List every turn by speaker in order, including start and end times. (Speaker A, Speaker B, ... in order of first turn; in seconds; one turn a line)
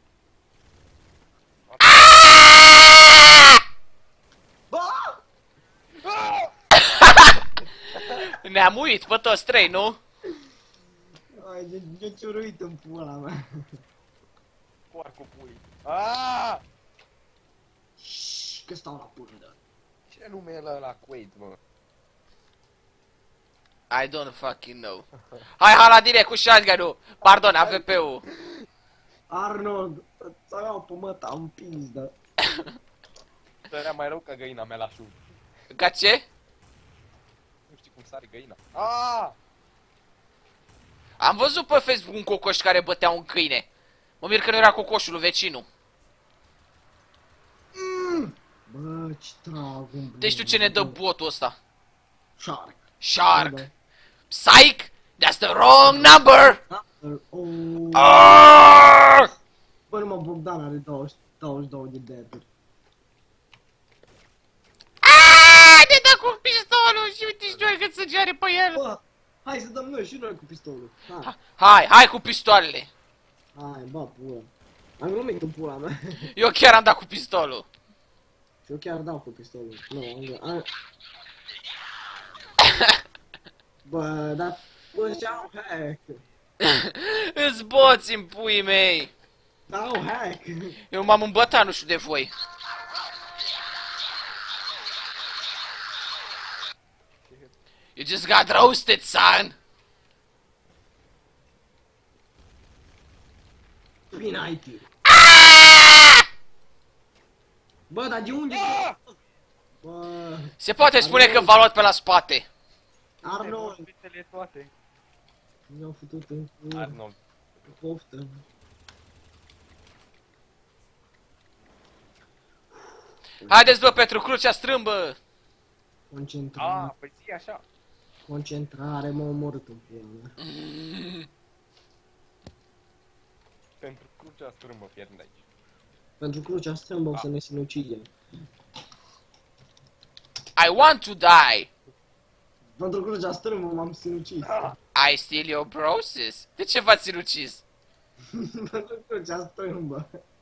Speaker A: 1.7-2.7
Speaker B: 3.2-3.5
Speaker C: 4.7-5.2
Speaker A: 6.0-6.5
Speaker B: 6.8-7.3
Speaker B: 8.1-10.0
Speaker C: 11.4-13.7
Speaker A: 14.9-16.6
Speaker C: 18.0-19.6
Speaker A: 20.1-21.6
Speaker B: 23.9-25.1
Speaker B: 25.6-28.2
Speaker A: 27.3-27.9
Speaker C: 29.3-32.1
Speaker A: 33.7-35.2
Speaker B: 35.7-36.2
Speaker A: 37.7-39.4
Speaker B: 41.2-43.7
Speaker B: 44.2-45.7
Speaker C: 47.8-51.0
Speaker B: 50.2-51.6
Speaker C: 52.4-53.7
Speaker B: 53.0-53.7
Speaker B: 54.3-56.6
Speaker C: 55.9-58.2
Speaker B: 57.9-59.3
Speaker C: 59.9-62.5
Speaker B: 65.0-68.8
Speaker C: 68.7-71.3
Speaker B: 71.2-72.9
Speaker C: 73.5-75.9
Speaker B: 76.3-77.7
Speaker C: 78.7-80.7
Speaker C: 83.8-86.2
Speaker B: 86.6-89.1
Speaker C: 89.7-90.8
Speaker B: 90.9-92.3
Speaker B: 98.0-99.6
Speaker C: 104.1-104.9
Speaker B: 105.1-106.2
Speaker C: 107.9-109.0
Speaker A: 108.5-109.0
Speaker C: 109.8-111.6
Speaker B: 110.6-112.5
Speaker C: 113.2-113.8
Speaker A: 113.2-114.7
Speaker C: 115.7-116.9
Speaker A: 116.7-117.7
Speaker C: 117.7-118.4
Speaker C: 123.4-123.8
Speaker B: 123.5-125.2
Speaker C: 126.1-126.9
Speaker A: 126.6-127.6
Speaker C: 128.3-130.3
Speaker B: 130.4-131.3
Speaker A: 133.8-135.4
Speaker C: 136.2-138.1
Speaker B: 140.6-141.7
Speaker C: 142.8-144.5
Speaker A: 144.4-144.8
Speaker B: 144.9-147.6
Speaker C: 148.4-150.1